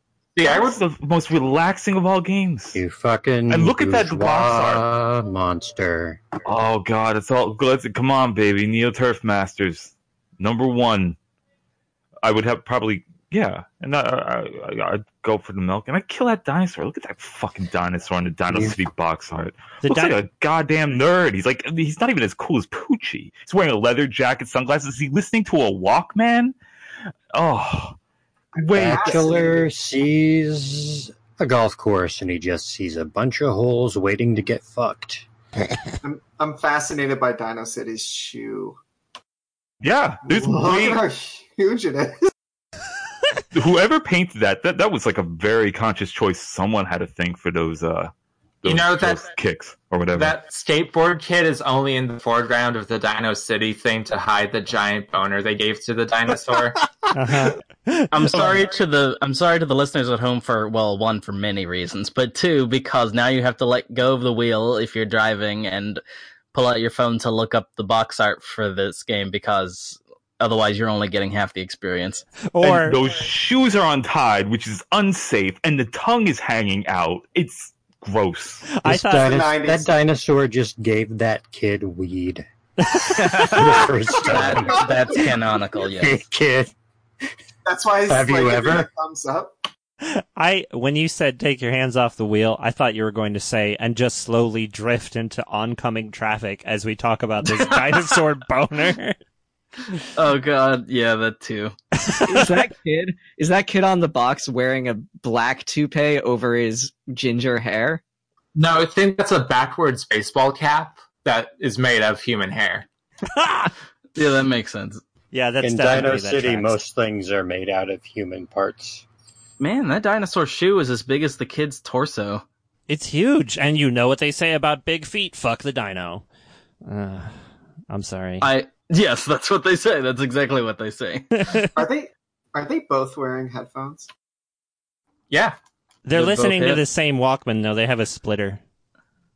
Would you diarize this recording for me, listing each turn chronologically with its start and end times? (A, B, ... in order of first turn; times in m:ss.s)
0:00.4-0:00.8 A
0:00.4-0:02.8 B
0:02.7-0:06.3 C
0:03.5-0:04.8 B
0:06.5-0:11.2 B
0:12.2-0:26.6 B
0:19.8-0:20.2 D
0:27.3-0:28.0 B
0:28.5-0:29.6 E
0:28.7-0:35.3 C
0:28.7-0:29.2 B
0:36.0-0:38.8 E
0:39.8-0:41.0 B
0:40.3-0:42.3 E
0:43.5-0:48.1 B
0:48.6-0:50.4 B
0:48.7-0:49.3 A
0:50.2-0:56.8 A
0:57.1-0:58.5 D
0:58.1-1:06.0 F
1:06.5-1:12.3 F
1:12.5-1:13.0 D
1:12.6-1:18.7 B
1:18.7-1:19.4 D
1:18.8-1:22.5 C
1:19.2-1:19.9 E
1:22.9-1:23.8 D
1:23.4-1:23.7 G
1:23.4-1:25.2 C
1:24.2-1:26.2 F
1:25.9-1:26.7 C
1:27.6-1:29.6 E
1:28.1-1:28.9 C
1:30.0-1:39.2 D
1:37.5-1:38.2 F
1:40.2-1:41.8 F
1:42.1-1:42.4 D
1:42.2-1:48.0 G
1:48.6-1:52.9 A
1:54.2-1:55.0 F
1:55.3-1:56.8 D
1:55.6-1:59.0 C
1:59.6-2:02.4 F
2:02.9-2:06.2 D
2:06.8-2:08.5 D
2:08.4-2:11.5 F
2:11.4-2:11.7 D
2:11.7-2:14.1 E
2:15.3-2:15.6 A
2:16.0-2:18.6 D
2:16.1-2:16.8 F